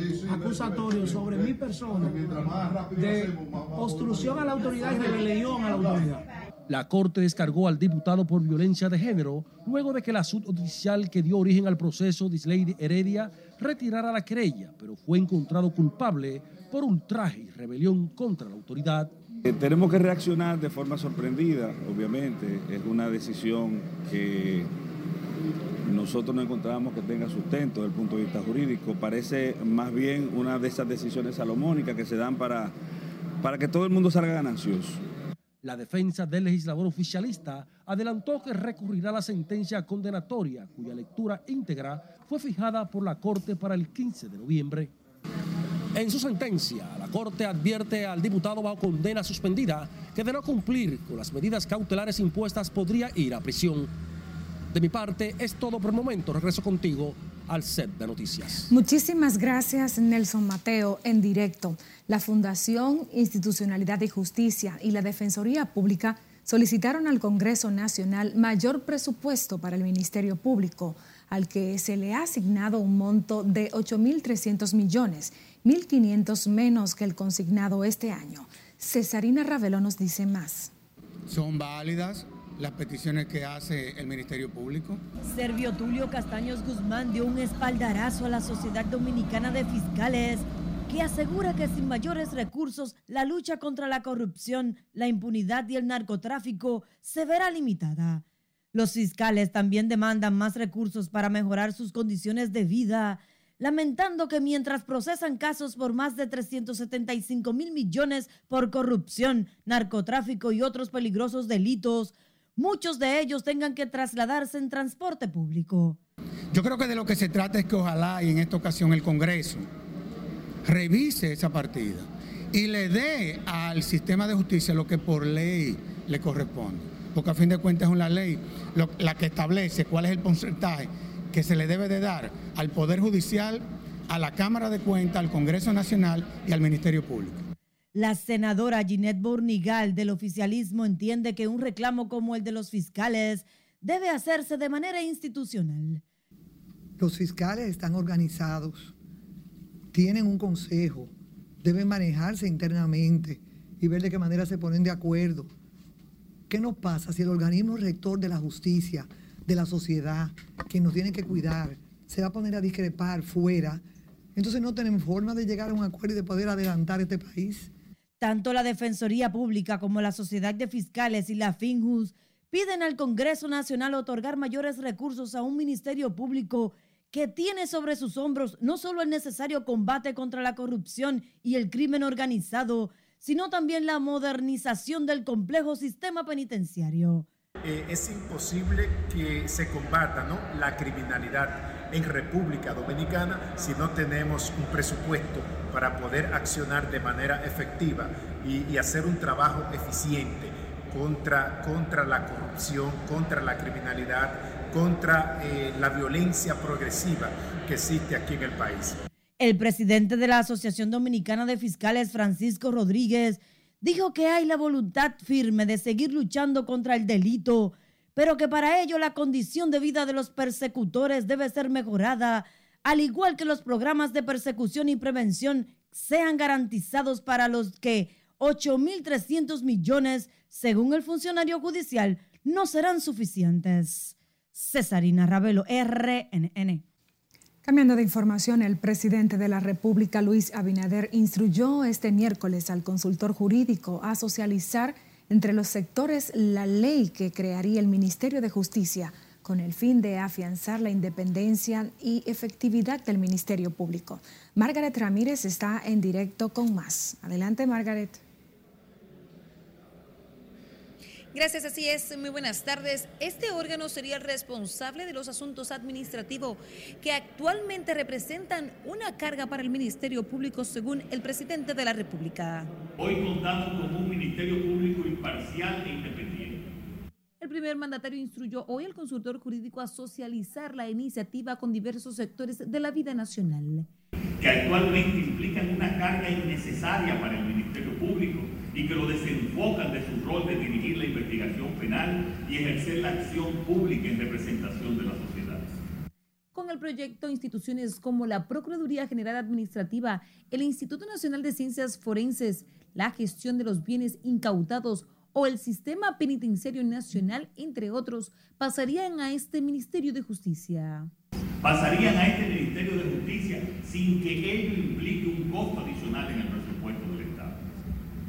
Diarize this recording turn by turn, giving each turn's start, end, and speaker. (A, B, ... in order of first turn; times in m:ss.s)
0:00.3-0:02.2 A
0:02.9-0:06.2 A
0:06.7-0:19.2 B
0:19.4-0:24.7 C
0:25.9-0:32.8 C
0:33.4-0:35.0 C
0:35.6-0:44.9 B
0:45.9-0:53.9 B
0:54.7-0:58.7 B
0:58.7-1:20.7 D
1:21.3-1:25.0 E
1:25.2-1:38.2 F
1:38.7-1:56.0 F
1:56.5-1:59.7 E
2:00.7-2:17.5 E
2:17.9-2:26.0 F
2:27.0-2:28.9 G
2:29.9-2:31.1 G
2:31.6-2:35.5 G
2:36.5-2:43.8 G
2:44.4-2:47.7 G
2:48.2-3:07.3 F
3:07.6-3:29.0 H
3:29.4-3:56.8 F
3:57.6-4:18.2 D
4:21.3-4:32.7 I
4:33.0-4:36.6 J
4:37.4-4:43.9 I
4:44.4-4:55.8 J
4:56.5-5:11.1 I
5:11.6-5:17.6 J